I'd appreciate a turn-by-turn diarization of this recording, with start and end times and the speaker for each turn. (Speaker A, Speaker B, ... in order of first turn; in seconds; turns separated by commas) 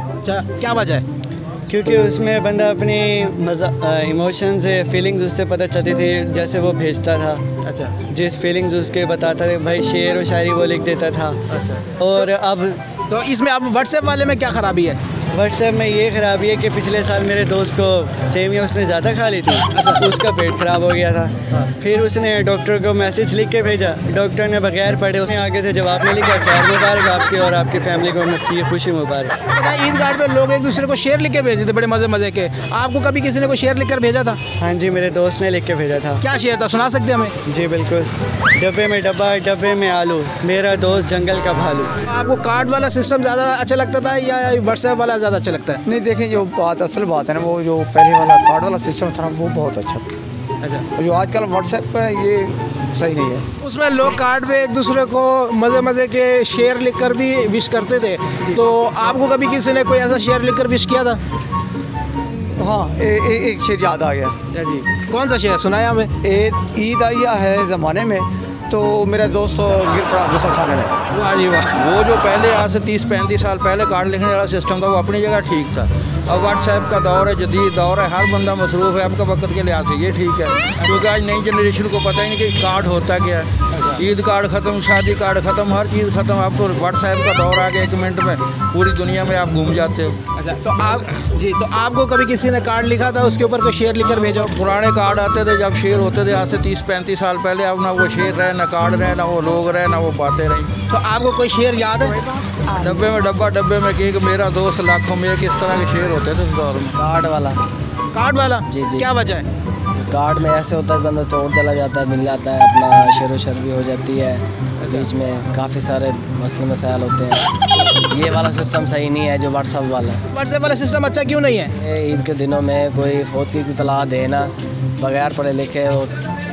Speaker A: 0.2-1.0, Speaker B: 1.7-7.4, Speaker A: 7.6-8.0, Speaker B: 8.1-11.4, Speaker A: 11.5-11.9, Speaker B: 12.0-12.8, Speaker A: 13.1-15.0, Speaker B: 15.3-29.3, Speaker A: 19.7-20.0, Speaker A: 29.5-34.4, Speaker B: 34.6-36.2, Speaker A: 36.2-37.3, Speaker B: 37.5-41.9, Speaker A: 42.0-45.8, Speaker C: 45.8-50.1, Speaker C: 50.9-53.5, Speaker A: 53.6-61.2, Speaker C: 62.5-64.4, Speaker A: 64.5-66.1, Speaker C: 66.2-71.0, Speaker D: 71.2-90.2, Speaker A: 83.7-84.0, Speaker A: 90.4-94.5, Speaker D: 94.4-100.7, Speaker A: 100.9-102.2, Speaker D: 102.7-106.9, Speaker E: 106.9-107.6, Speaker A: 108.1-109.5, Speaker E: 108.7-109.1, Speaker E: 110.0-117.5, Speaker E: 118.1-120.2, Speaker A: 120.3-121.7, Speaker E: 121.7-126.1